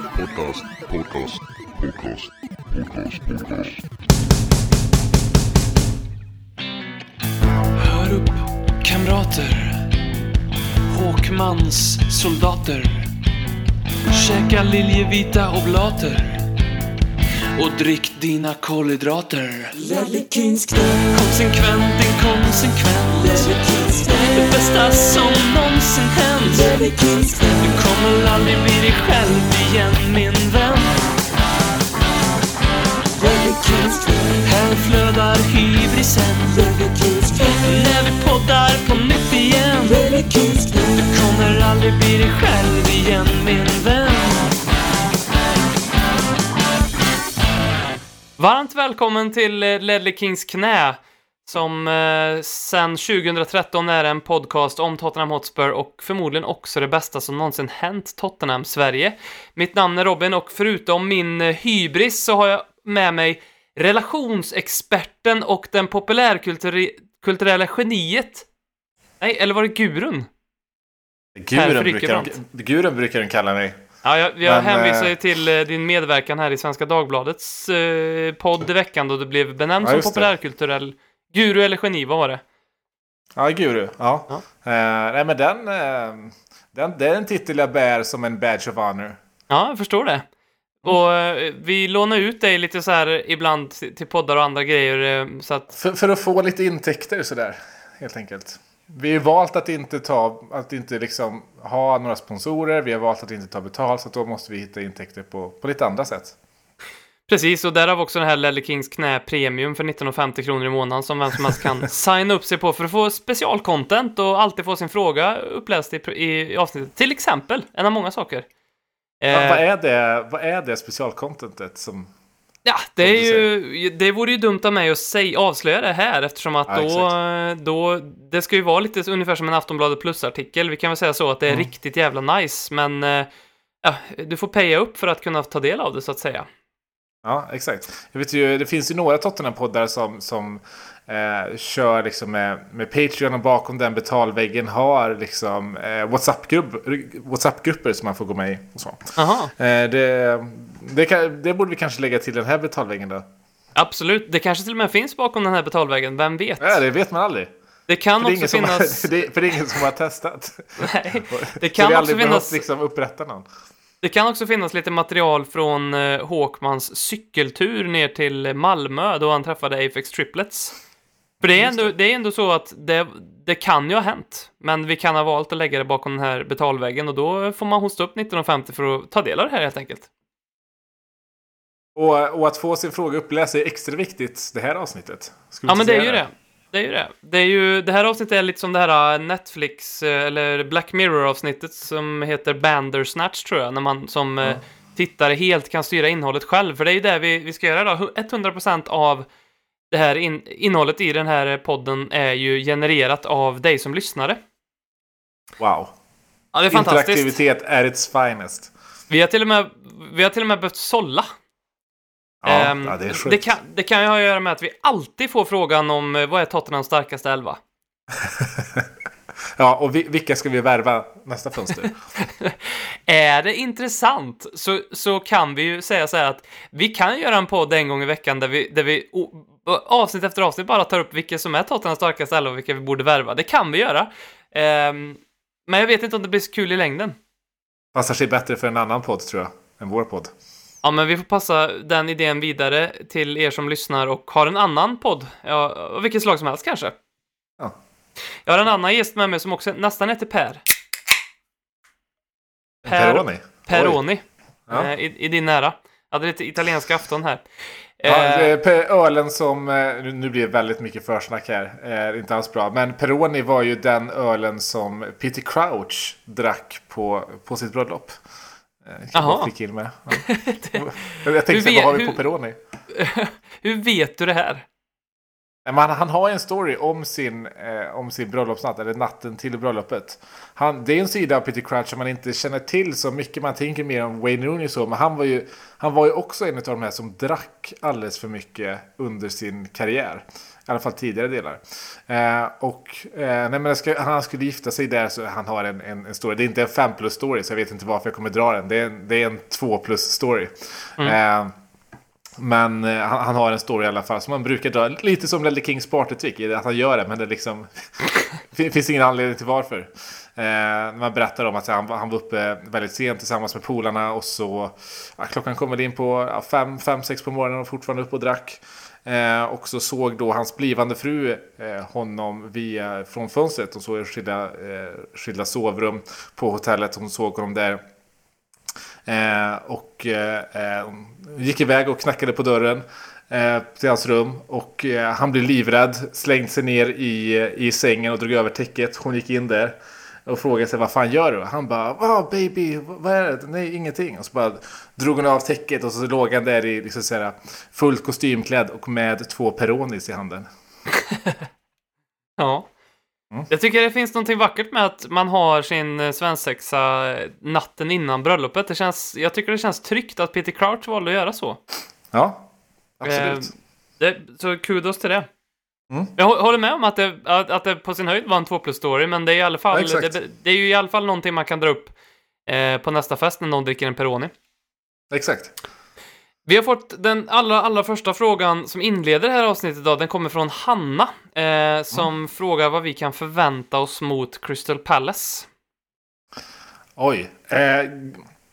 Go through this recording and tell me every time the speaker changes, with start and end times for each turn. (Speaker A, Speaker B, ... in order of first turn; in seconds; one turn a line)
Speaker A: 0.1-3.8
Speaker B: 7.8-9.9
Speaker B: 10.9-13.1
Speaker B: 14.1-16.5
Speaker B: 17.6-31.0
Speaker B: 33.2-44.5
Speaker B: 48.4-68.5
Speaker B: 69.2-70.3
Speaker C: 71.4-73.8
Speaker B: 71.5-72.3
Speaker B: 74.0-82.4
Speaker C: 74.4-75.1
Speaker C: 79.8-80.3
Speaker C: 83.4-89.2
Speaker B: 89.5-90.2
Speaker B: 90.8-95.7
Speaker C: 95.7-106.3
Speaker B: 107.3-118.5
Speaker B: 119.2-119.6
Speaker C: 119.3-122.1
Speaker B: 122.7-133.3
Speaker C: 123.0-123.5
Speaker C: 126.7-127.1
Speaker B: 133.8-136.5
Speaker C: 137.2-153.2
Speaker B: 149.2-149.5
Speaker B: 153.8-156.8
Speaker C: 156.6-157.5
Speaker B: 157.9-159.2
Speaker C: 158.2-163.5
Speaker B: 160.8-162.6
Speaker B: 164.0-170.8
Speaker C: 171.4-171.9
Speaker B: 171.4-180.1
Speaker C: 182.0-186.2
Speaker B: 185.7-199.3
Speaker B: 199.9-204.4
Speaker C: 205.6-205.9
Speaker B: 206.5-207.3
Speaker C: 206.7-208.7
Speaker B: 209.1-211.3
Speaker C: 212.4-213.5
Speaker B: 212.5-217.6
Speaker C: 218.1-218.9
Speaker C: 219.6-221.9
Speaker B: 222.2-237.2
Speaker C: 237.9-240.3
Speaker B: 240.8-246.9
Speaker B: 248.5-250.6
Speaker C: 252.8-254.0
Speaker B: 252.9-257.4
Speaker B: 258.0-258.5
Speaker C: 258.1-268.2
Speaker C: 268.8-272.6
Speaker B: 269.1-269.5
Speaker B: 270.1-270.8
Speaker B: 271.5-272.2
Speaker B: 272.9-274.6
Speaker C: 275.6-301.5
Speaker C: 302.4-307.7
Speaker C: 308.5-327.8
Speaker C: 329.1-350.5
Speaker B: 351.1-351.4
Speaker B: 352.4-352.7
Speaker B: 353.5-361.6
Speaker C: 362.1-362.5
Speaker C: 363.0-363.5
Speaker B: 363.1-365.3
Speaker B: 366.2-371.9
Speaker C: 369.7-370.1
Speaker B: 372.5-374.3
Speaker C: 375.1-375.5
Speaker B: 376.5-385.5
Speaker C: 387.0-388.2